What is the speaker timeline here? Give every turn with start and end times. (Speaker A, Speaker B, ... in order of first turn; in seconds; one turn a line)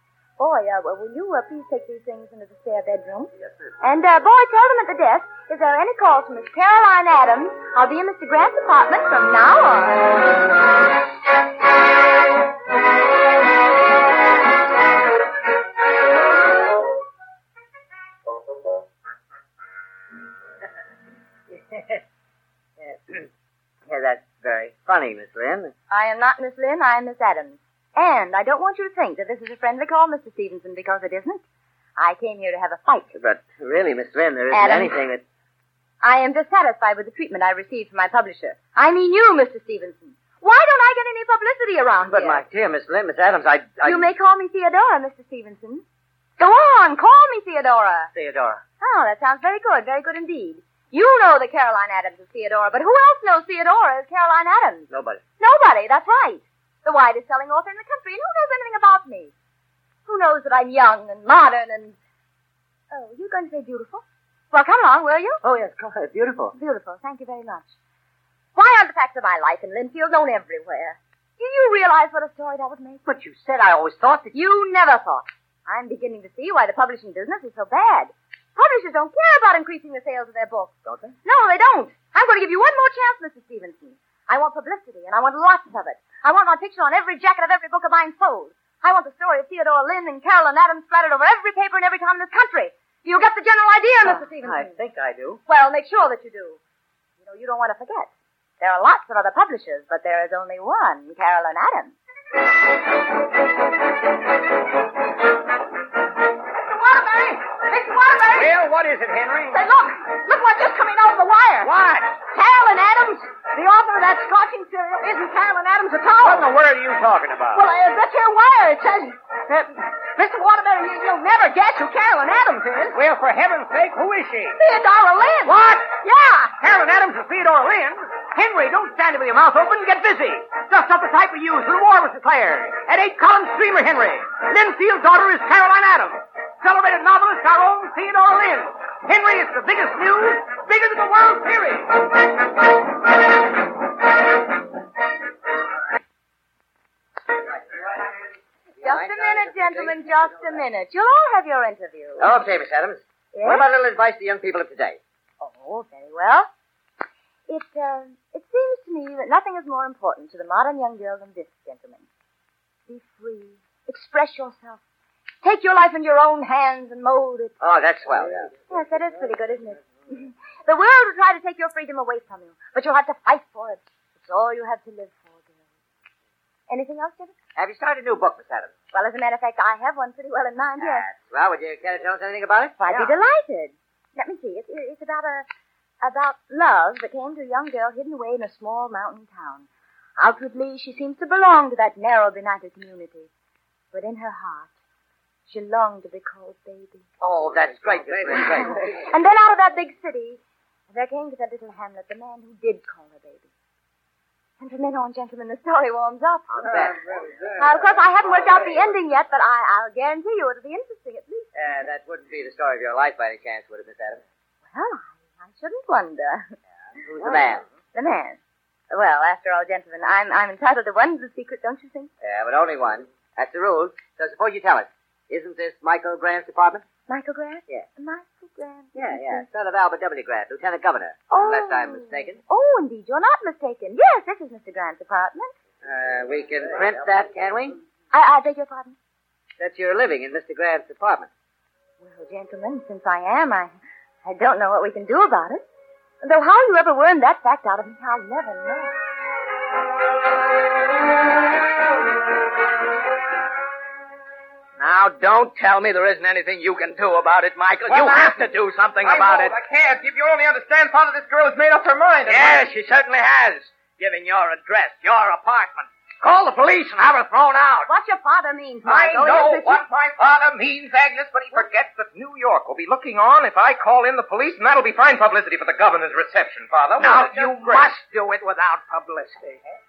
Speaker A: 0.4-10.2
Speaker B: 23.9-25.7
Speaker A: 25.9-31.4
Speaker A: 32.0-33.1
Speaker B: 33.1-35.2
Speaker A: 34.5-35.0
Speaker A: 36.0-42.4
Speaker B: 42.1-44.1
Speaker A: 43.8-45.8
Speaker A: 46.4-48.1
Speaker B: 48.1-48.6
Speaker A: 48.8-54.9
Speaker B: 54.9-55.2
Speaker A: 55.4-59.3
Speaker A: 60.1-62.0
Speaker A: 62.9-65.4
Speaker B: 65.4-66.5
Speaker A: 66.5-67.7
Speaker A: 68.5-73.0
Speaker B: 73.1-74.3
Speaker A: 74.3-80.7
Speaker B: 80.9-81.2
Speaker A: 81.2-94.8
Speaker B: 94.1-95.4
Speaker A: 95.5-96.6
Speaker A: 97.2-102.0
Speaker C: 108.3-109.6
Speaker C: 111.6-111.9
Speaker D: 111.7-112.0
Speaker C: 116.2-117.6
Speaker A: 117.6-118.9
Speaker C: 122.9-124.6
Speaker A: 124.6-125.5
Speaker C: 125.5-141.9
Speaker B: 148.8-150.6
Speaker A: 148.8-152.4
Speaker B: 152.2-155.0
Speaker A: 153.3-153.7
Speaker A: 155.4-156.5
Speaker A: 157.5-162.1
Speaker A: 162.9-164.8
Speaker A: 165.4-167.5
Speaker B: 167.6-168.5
Speaker A: 168.7-175.6
Speaker A: 176.7-177.3
Speaker B: 177.6-178.7
Speaker A: 178.9-181.1
Speaker B: 180.8-183.1
Speaker A: 182.8-185.5
Speaker A: 186.0-193.3
Speaker A: 193.9-194.7
Speaker A: 195.5-197.1
Speaker B: 197.2-199.0
Speaker A: 198.4-200.4
Speaker A: 200.9-203.5
Speaker A: 204.6-206.8
Speaker B: 206.5-208.4
Speaker A: 207.6-211.5
Speaker B: 211.6-214.2
Speaker A: 214.7-216.5
Speaker B: 217.0-217.6
Speaker A: 217.9-218.4
Speaker A: 218.9-222.1
Speaker B: 222.2-226.8
Speaker A: 227.1-229.5
Speaker B: 228.9-232.4
Speaker A: 231.3-235.5
Speaker B: 235.8-237.8
Speaker A: 238.1-239.0
Speaker B: 239.6-241.3
Speaker A: 242.0-243.7
Speaker A: 244.2-245.6
Speaker A: 246.2-248.9
Speaker D: 254.8-259.5
Speaker E: 257.9-258.5
Speaker E: 259.0-262.6
Speaker D: 262.3-267.9
Speaker F: 267.9-269.8
Speaker E: 268.9-277.9
Speaker D: 277.0-279.6